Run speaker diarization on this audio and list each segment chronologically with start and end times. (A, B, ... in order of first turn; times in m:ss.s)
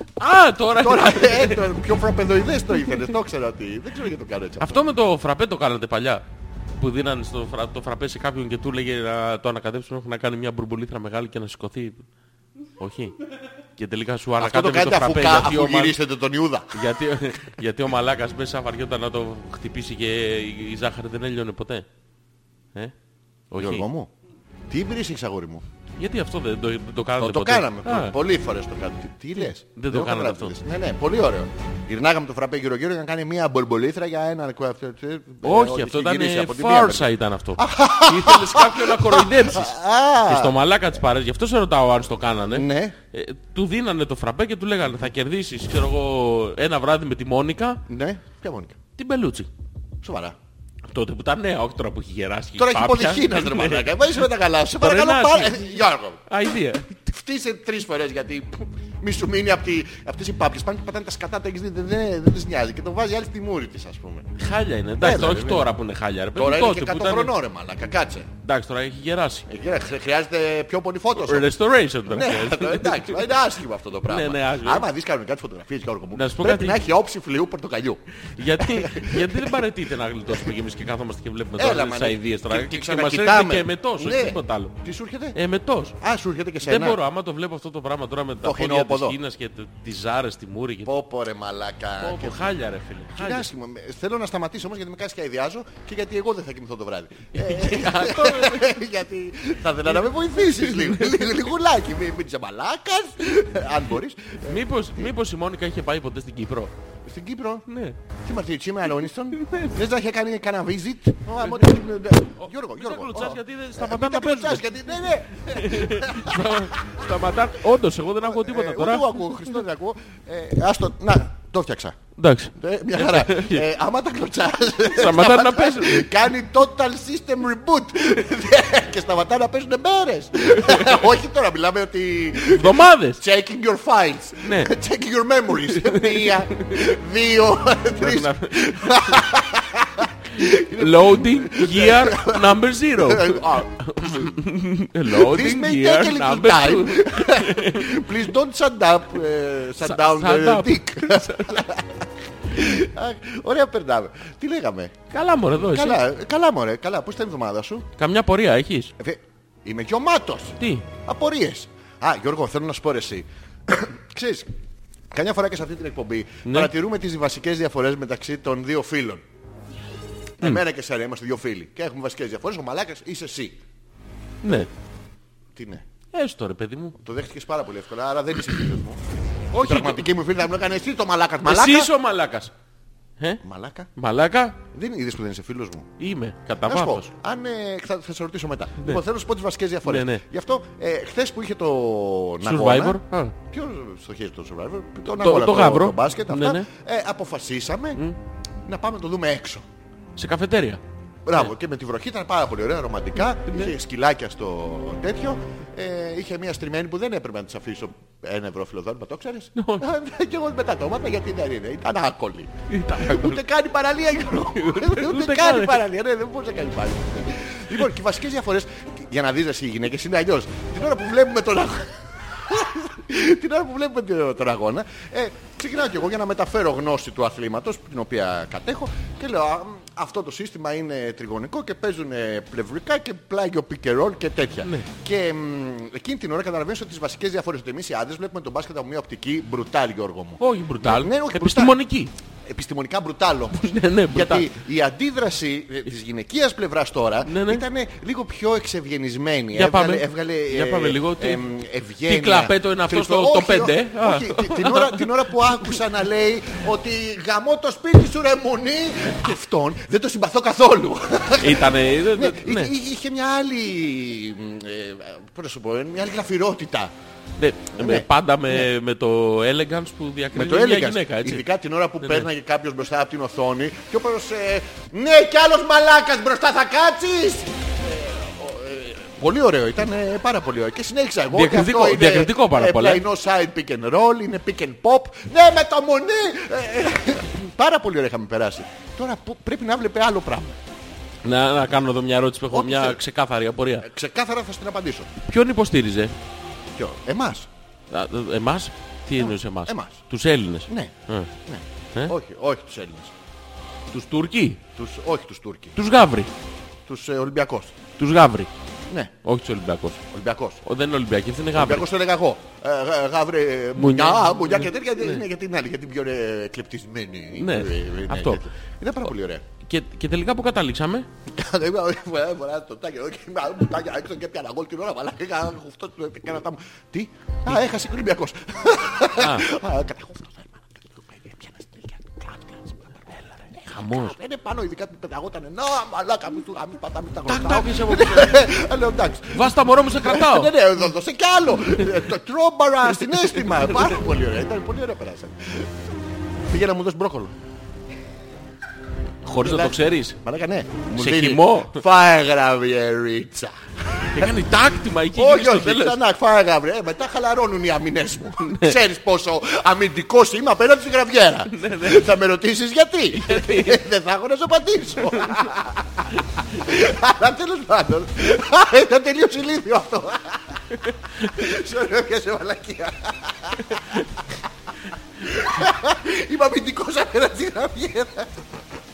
0:00.2-0:01.6 A
0:00.7-0:04.8 B
0:04.6-0:06.2 A
0:06.8-0:12.0 A
0:12.8-0:13.2 A
0:13.8-0:16.0 A
0:14.4-0:16.8 B
0:16.7-0:21.8 A
0:23.5-0:23.8 A
0:23.6-0:24.1 B
0:24.7-0:25.6 B
0:26.0-0:28.1 A
0:27.2-0:40.6 B
0:29.4-0:30.6 A
0:35.4-0:39.7 A
0:40.3-0:47.8 A
0:42.5-0:43.0 B
0:47.9-0:48.8 B
0:49.0-0:49.5 A
0:50.0-0:50.4 B
0:50.9-0:54.2 A
0:52.6-0:56.2 B
0:54.8-0:57.0 A
0:56.9-1:04.3 B
1:04.4-1:07.3 A
1:05.0-1:05.7 B
1:06.3-1:08.3 B
1:08.4-1:09.5 A
1:09.5-1:11.5 B
1:11.2-1:13.3 A
1:12.0-1:18.0 B
1:14.1-1:14.8 A
1:16.1-1:16.8 A
1:18.3-1:24.7 A
1:18.5-1:19.6 B
1:21.6-1:25.4 B
1:25.3-1:26.0 A
1:26.0-1:27.0 B
1:26.6-1:30.9 A
1:28.4-1:29.2 B
1:30.8-1:32.5 B
1:32.0-1:33.5 A
1:33.1-1:45.1 B
1:37.3-1:38.8 A
1:40.5-1:41.2 A
1:44.5-1:46.7 A
1:47.0-1:47.6 B
1:47.7-1:48.0 A
1:48.2-1:57.1 B
1:49.3-1:49.8 A
1:51.4-1:54.6 A
1:55.4-1:59.2 A
1:58.2-2:02.0 B
2:02.2-2:03.6 A
2:02.5-2:24.3 B
2:04.9-2:06.1 A
2:12.5-2:13.2 A
2:14.4-2:14.7 A
2:15.8-2:16.8 A
2:18.0-2:19.2 A
2:20.4-2:28.0 A
2:25.0-2:35.0 B
2:29.8-2:31.7 A
2:35.1-2:36.0 A
2:35.6-2:37.9 B
2:38.0-2:38.9 A
2:39.0-2:44.5 B
2:40.6-2:40.9 A
2:45.1-2:49.2 B
2:46.4-2:46.7 A
2:50.4-2:53.6 B
2:54.4-2:54.7 A
2:55.6-2:55.8 B
2:56.1-2:57.0 A
2:57.0-2:59.0 B
2:59.5-3:00.1 A
2:59.6-3:01.9 B
3:01.4-3:02.5 A
3:03.4-3:03.9 B
3:04.0-3:04.6 A
3:04.7-3:05.9 B
3:06.0-3:07.1 A
3:06.6-3:18.0 B
3:09.8-3:10.2 A
3:12.4-3:13.3 A
3:15.2-3:16.7 A
3:18.6-3:19.6 B
3:20.2-3:20.8 A
3:21.2-4:01.8 B
3:29.6-3:29.8 A
3:32.7-3:33.4 A
3:34.6-3:35.8 A
3:54.6-3:54.9 A
4:00.4-4:02.1 A
4:02.4-4:26.9 B
4:03.5-4:04.5 A
4:07.2-4:07.6 A
4:09.5-4:11.4 A
4:12.0-4:15.1 A
4:21.4-4:22.7 A
4:27.4-4:31.4 A
4:27.7-4:28.7 B
4:30.3-4:50.6 B
4:32.0-4:32.3 A
4:41.3-4:43.0 A
4:51.2-4:53.8 A
4:52.5-4:53.0 B
4:53.8-4:55.1 B
4:55.2-4:56.1 A
4:56.8-4:57.5 B
4:57.9-5:01.3 A
4:59.2-5:00.0 B
5:00.7-5:03.1 B
5:03.9-5:04.6 A
5:04.8-5:05.8 B
5:05.8-5:06.3 A
5:06.8-5:07.8 B
5:08.0-5:08.5 A
5:09.2-5:10.0 A
5:10.1-5:10.6 B
5:10.6-5:11.8 A
5:11.5-5:19.4 B
5:13.8-5:15.2 A
5:17.4-5:18.4 A
5:19.6-5:21.1 A
5:21.3-5:45.7 B
5:29.2-5:29.4 A
5:33.7-5:34.2 A
5:37.2-5:38.4 A
5:39.3-5:40.5 A
5:46.5-5:47.3 B
5:49.2-5:50.2 A
5:49.4-5:54.3 B
5:51.0-5:51.8 A
5:54.1-5:56.0 A
5:55.1-6:10.6 B
5:58.4-5:58.7 A
6:01.5-6:02.1 A
6:03.1-6:03.8 A
6:10.7-6:11.3 A
6:11.2-6:14.1 B
6:15.2-6:18.3 B